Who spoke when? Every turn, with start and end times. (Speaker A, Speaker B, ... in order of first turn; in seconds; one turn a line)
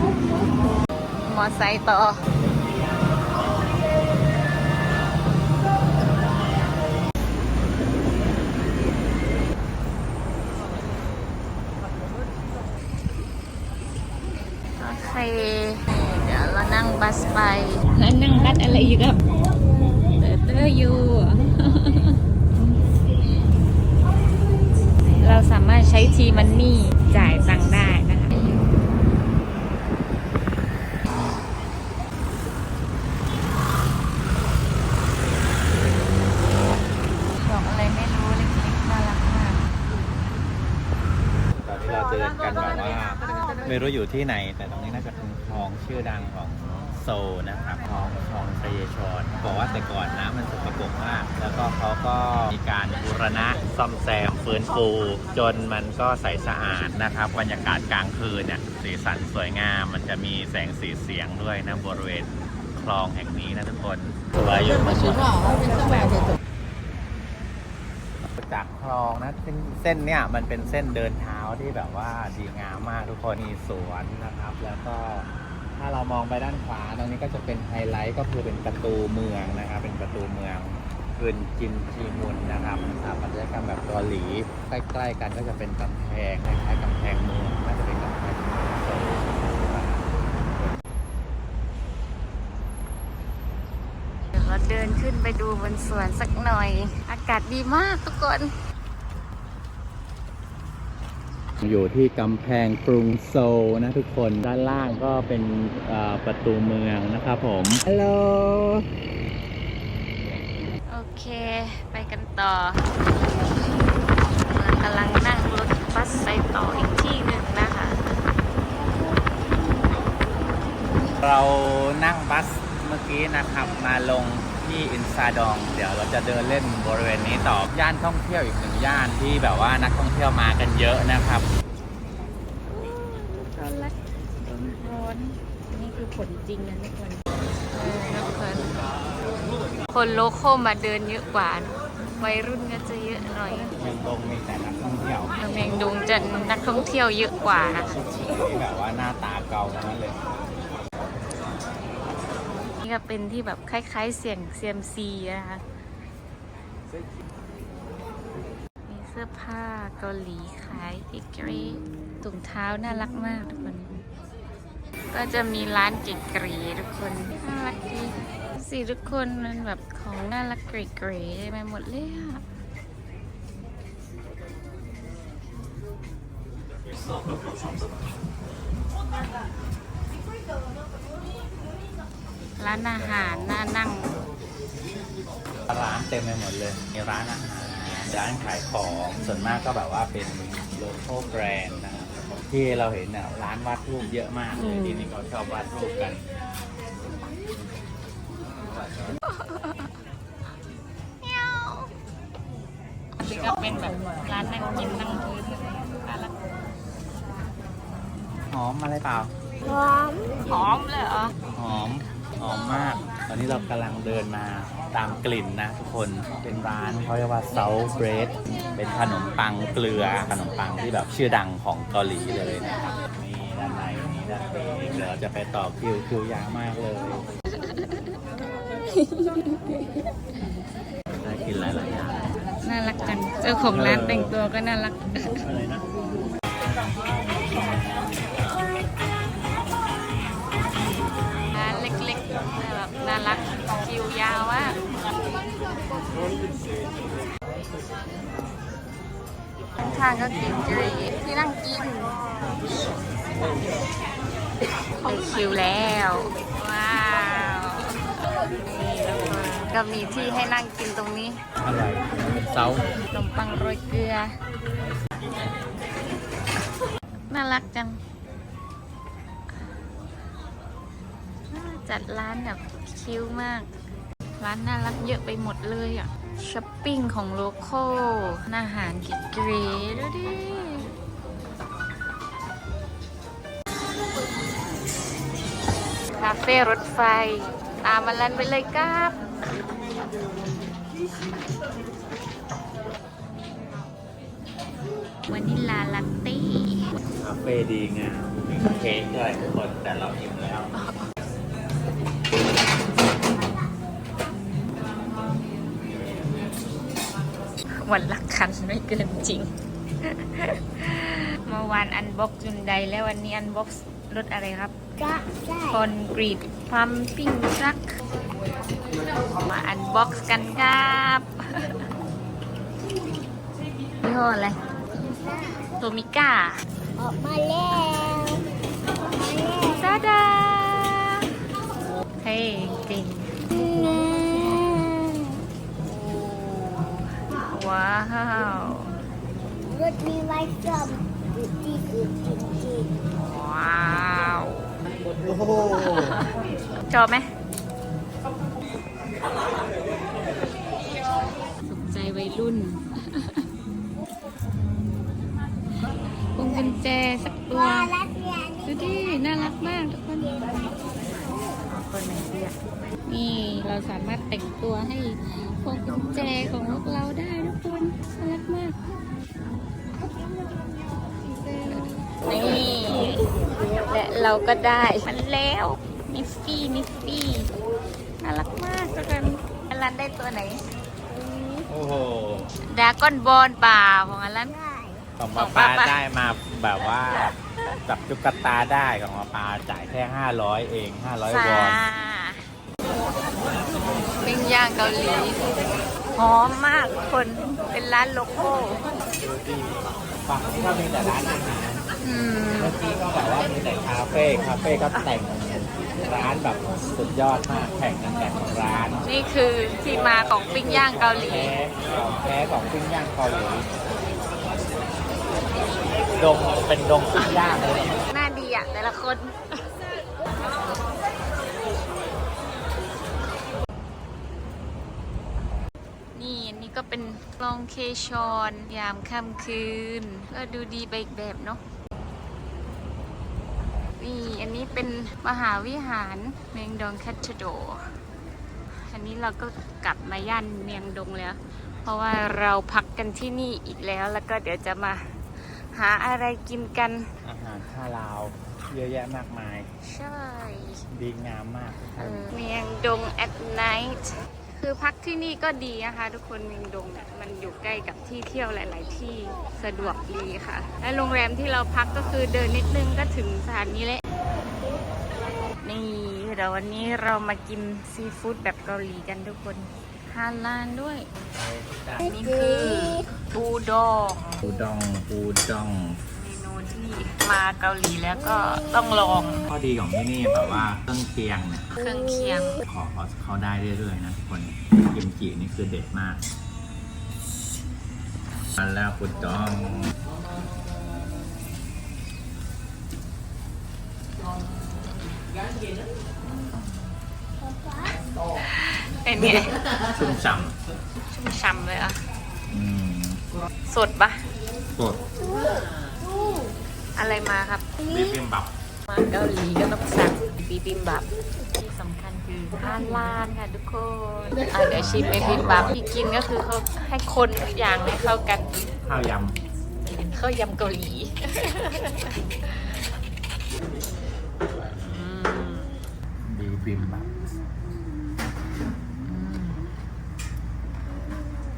Speaker A: 1.2-2.2
Speaker A: 14.8-19.2
Speaker A: 20.2-22.1
Speaker A: 25.2-28.4
Speaker A: 37.4-39.6
Speaker B: 41.6-66.2
Speaker B: 68.4-90.6
Speaker A: 94.3-98.5
Speaker B: 101.6-107.8
Speaker A: 107.9-108.8
Speaker A: 110.9-112.8
Speaker A: 114.5-118.0
Speaker B: 121.2-131.5
Speaker A: 132.6-138.7
Speaker A: 139.9-143.7
Speaker B: 143.8-145.4
Speaker A: 145.4-148.0
Speaker B: 148.1-150.2
Speaker A: 152.8-155.6
Speaker A: 158.8-164.0
Speaker A: 165.1-172.4
Speaker A: 182.6-184.2
Speaker B: 182.8-183.6
Speaker B: 185.7-196.2
Speaker A: 194.5-195.1
Speaker A: 199.2-199.9
Speaker A: 201.2-201.9
Speaker A: 203.2-206.3
Speaker B: 208.5-209.3
Speaker C: 209.7-210.2
Speaker A: 210.5-211.3
Speaker B: 211.5-227.2
Speaker A: 227.6-228.0
Speaker A: 228.8-230.1
Speaker B: 231.1-232.2
Speaker A: 232.6-235.4
Speaker B: 233.7-234.4
Speaker B: 235.4-235.8
Speaker A: 241.5-244.8
Speaker A: 249.8-252.2
Speaker A: 255.0-257.8
Speaker A: 258.6-261.4
Speaker B: 261.6-262.9
Speaker A: 263.1-264.3
Speaker A: 267.3-268.0
Speaker A: 271.5-273.7
Speaker A: 274.4-280.8
Speaker A: 286.1-289.1
Speaker A: 295.3-296.9
Speaker B: 297.1-300.7
Speaker A: 300.7-301.1
Speaker A: 307.8-309.5
Speaker A: 310.3-314.7
Speaker C: 315.0-315.8
Speaker A: 315.7-317.9
Speaker A: 319.4-321.8
Speaker A: 324.0-324.6
Speaker C: 325.0-325.7
Speaker A: 325.8-326.6
Speaker C: 327.0-328.5
Speaker C: 329.1-329.9
Speaker A: 329.7-331.1
Speaker A: 332.2-333.3
Speaker C: 333.5-335.0
Speaker A: 335.8-338.9
Speaker C: 339.7-342.9
Speaker A: 343.2-344.7
Speaker A: 345.7-346.3
Speaker A: 346.9-347.3
Speaker A: 351.6-353.4
Speaker A: 356.3-358.0
Speaker A: 358.6-360.6
Speaker A: 361.7-368.8
Speaker C: 370.3-371.4
Speaker A: 371.6-373.2
Speaker A: 373.8-377.5
Speaker A: 378.2-380.6
Speaker B: 381.7-382.5
Speaker A: 382.7-384.6
Speaker B: 385.2-387.3
Speaker A: 385.4-386.0
Speaker B: 387.9-391.8
Speaker A: 391.3-392.4
Speaker A: 394.2-395.6
Speaker A: 396.1-398.8
Speaker B: 399.2-401.8
Speaker A: 402.0-402.8
Speaker B: 402.6-409.0
Speaker A: 409.0-411.5
Speaker B: 410.4-413.6
Speaker B: 416.1-418.0
Speaker A: 418.1-419.2
Speaker A: 426.1-431.6
Speaker A: 434.0-437.8
Speaker A: 438.9-445.0
Speaker A: 445.7-447.0
Speaker B: 447.2-449.7
Speaker A: 449.8-450.7
Speaker B: 450.9-452.3
Speaker A: 452.0-454.0
Speaker A: 454.6-464.0
Speaker A: 465.6-471.1
Speaker B: 471.3-472.1
Speaker A: 472.0-474.4
Speaker B: 474.4-476.0
Speaker A: 476.1-479.4
Speaker B: 479.5-481.7
Speaker A: 481.8-482.6
Speaker B: 482.6-486.2
Speaker B: 488.6-489.9
Speaker A: 498.4-499.5
Speaker B: 499.9-500.5
Speaker A: 501.0-502.0
Speaker B: 502.5-503.2
Speaker A: 503.7-504.2
Speaker B: 504.8-505.0
Speaker A: 506.9-508.2
Speaker B: 507.9-508.5
Speaker A: 508.9-518.5
Speaker B: 514.7-515.8
Speaker B: 518.8-519.4
Speaker A: 520.0-522.7
Speaker B: 524.6-525.0
Speaker A: 524.8-525.8
Speaker B: 526.2-527.1
Speaker A: 529.0-529.6